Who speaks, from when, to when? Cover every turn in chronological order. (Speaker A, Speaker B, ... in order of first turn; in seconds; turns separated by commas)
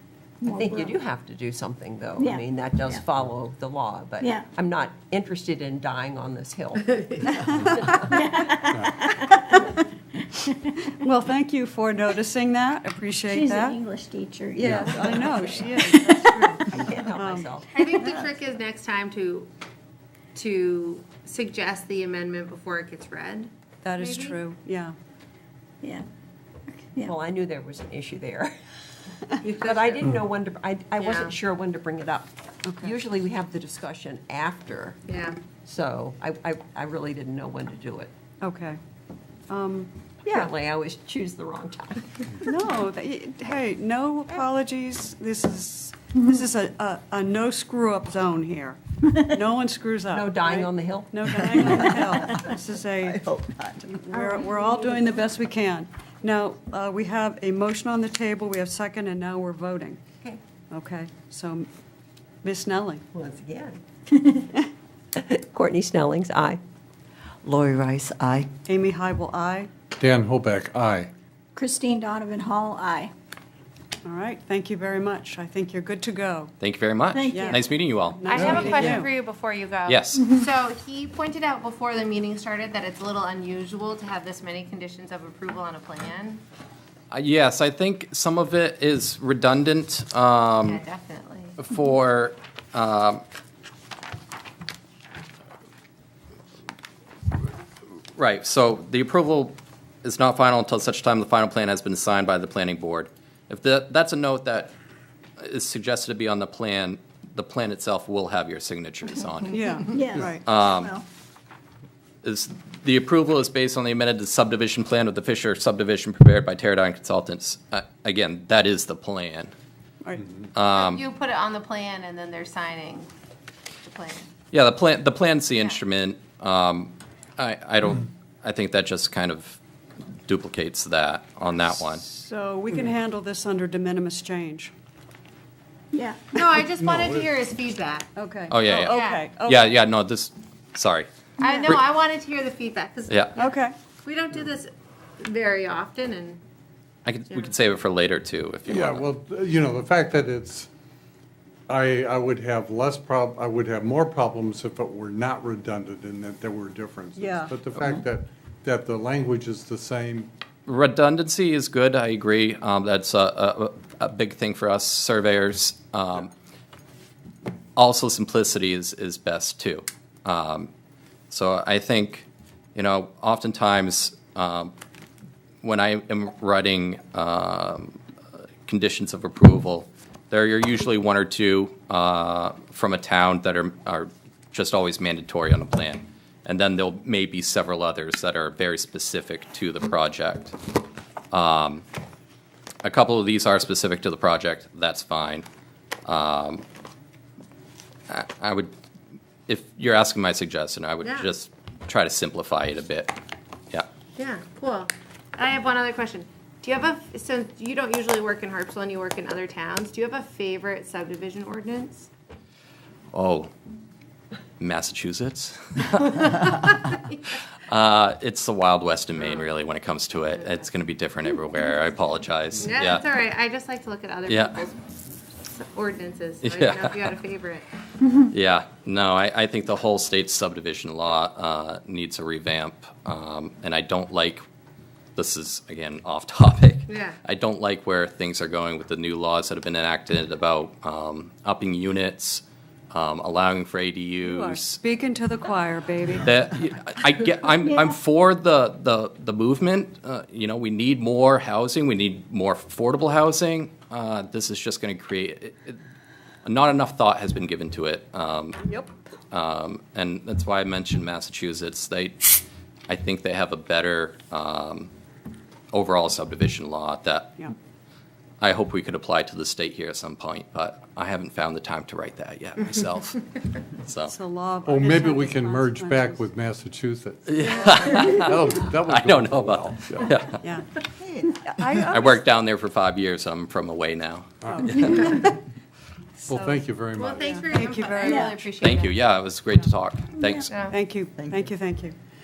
Speaker A: 0.4-1.0, Speaker B: 0.4-6.9, Speaker A: 2.2-3.0, Speaker A: 4.2-4.5, Speaker C: 6.9-7.3, Speaker D: 7.3-8.7, Speaker B: 7.7-8.0, Speaker A: 8.1-9.6, Speaker D: 10.9-13.8, Speaker A: 13.3-17.0, Speaker B: 14.6-15.9, Speaker D: 14.6-17.5, Speaker B: 16.6-17.9, Speaker C: 17.7-19.5, Speaker A: 17.8-18.2, Speaker C: 20.4-24.4, Speaker D: 23.8-24.9, Speaker A: 26.7-27.2, Speaker B: 27.1-28.5, Speaker C: 29.4-30.1, Speaker B: 29.6-35.0, Speaker C: 31.0-31.4, Speaker D: 32.6-33.0, Speaker C: 35.1-35.4, Speaker B: 35.6-38.1, Speaker D: 38.4-38.8, Speaker D: 39.5-40.4, Speaker B: 40.2-42.2, Speaker D: 42.4-53.2, Speaker B: 50.1-52.5, Speaker B: 53.0-53.9, Speaker D: 53.9-60.0, Speaker A: 54.1-55.3, Speaker D: 60.7-61.7, Speaker D: 62.4-63.0, Speaker B: 63.1-63.8, Speaker B: 65.2-66.6, Speaker B: 67.4-68.5, Speaker D: 68.7-69.7, Speaker E: 70.0-71.1, Speaker A: 71.6-73.1, Speaker D: 74.0-76.5, Speaker F: 76.6-78.8, Speaker A: 77.1-77.6, Speaker D: 77.2-79.1, Speaker C: 78.3-86.4, Speaker E: 78.3-79.0, Speaker F: 79.9-80.3, Speaker A: 80.2-80.5, Speaker F: 87.1-90.8, Speaker C: 90.6-91.6, Speaker F: 91.6-93.2, Speaker F: 98.1-104.7, Speaker F: 105.4-109.6, Speaker D: 109.5-110.5, Speaker A: 109.6-111.0, Speaker F: 110.4-111.0, Speaker F: 112.2-119.5, Speaker F: 120.5-121.0, Speaker C: 120.7-123.1, Speaker C: 123.8-124.3, Speaker F: 124.5-129.6, Speaker F: 130.3-132.0, Speaker D: 131.9-134.7, Speaker A: 135.9-136.5, Speaker C: 136.3-138.1, Speaker E: 136.8-137.3, Speaker D: 138.2-139.8, Speaker F: 138.5-141.1, Speaker C: 138.9-139.3, Speaker C: 141.4-146.4, Speaker A: 141.4-141.7, Speaker D: 143.4-143.7, Speaker F: 147.1-149.1, Speaker E: 148.7-150.7, Speaker E: 151.7-160.3, Speaker D: 157.2-157.6, Speaker F: 160.7-166.3, Speaker F: 167.8-170.7, Speaker F: 171.3-174.7, Speaker F: 175.6-178.0, Speaker F: 178.7-190.6, Speaker F: 191.3-191.8, Speaker F: 192.8-195.5, Speaker F: 196.1-196.6, Speaker F: 198.1-198.7, Speaker F: 199.5-203.2, Speaker C: 201.0-201.3, Speaker C: 204.2-212.1, Speaker F: 213.1-213.5, Speaker F: 214.6-216.4, Speaker C: 216.4-217.1, Speaker F: 217.7-223.1, Speaker C: 219.2-219.5, Speaker C: 220.3-220.7, Speaker C: 222.6-224.8, Speaker F: 224.3-224.6, Speaker C: 225.4-227.7, Speaker F: 226.4-227.2, Speaker F: 228.3-234.4, Speaker F: 235.2-244.8, Speaker C: 236.9-237.2, Speaker D: 244.2-246.4, Speaker F: 246.2-255.8, Speaker A: 247.6-248.0, Speaker F: 256.4-258.6, Speaker D: 258.6-258.9, Speaker F: 259.3-264.9, Speaker F: 265.7-267.4, Speaker F: 268.4-274.1, Speaker D: 274.1-276.3, Speaker E: 274.7-280.2, Speaker F: 277.3-280.4, Speaker D: 277.4-278.0, Speaker B: 281.0-281.3, Speaker D: 281.4-282.2, Speaker F: 281.8-285.3, Speaker D: 284.4-285.3, Speaker D: 286.2-288.5, Speaker E: 286.3-287.3, Speaker C: 286.9-289.0, Speaker A: 288.0-288.3, Speaker F: 288.6-290.5, Speaker A: 290.2-290.5, Speaker D: 290.6-291.9